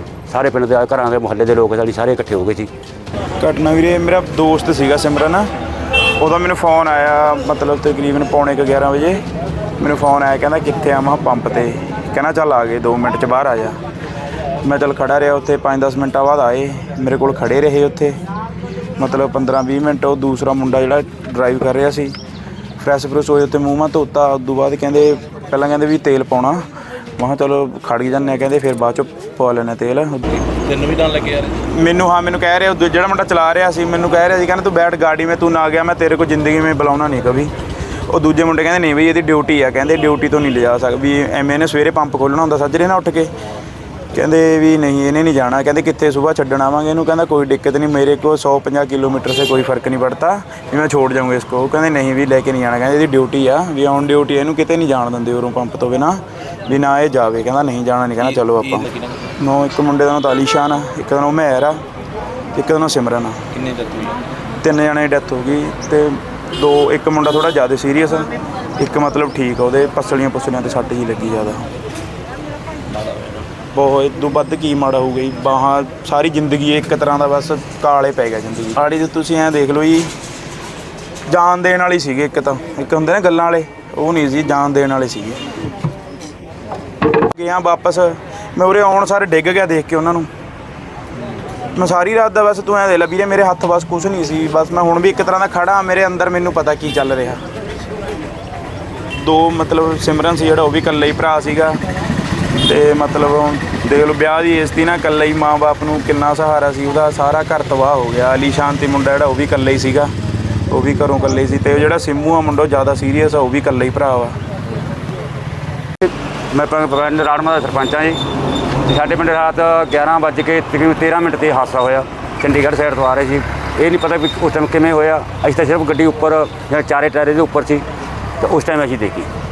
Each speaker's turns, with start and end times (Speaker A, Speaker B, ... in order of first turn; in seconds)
Speaker A: 0.3-2.7, 116.1-118.2, 118.8-127.9, 128.4-129.3
Speaker B: 3.4-5.5, 6.2-9.2, 9.8-13.8, 14.6-18.2, 19.0-22.1, 22.8-26.7, 27.2-30.4, 31.6-37.5, 38.1-43.3, 44.1-58.9, 59.4-61.8, 62.5-63.5, 64.6-71.7, 73.7-80.1, 81.3-85.4, 87.3-90.3, 91.8-97.4, 99.2-101.8, 102.6-110.1, 110.7-114.4
Speaker C: 30.4-31.6, 58.2-59.3, 63.5-64.2, 72.9-73.5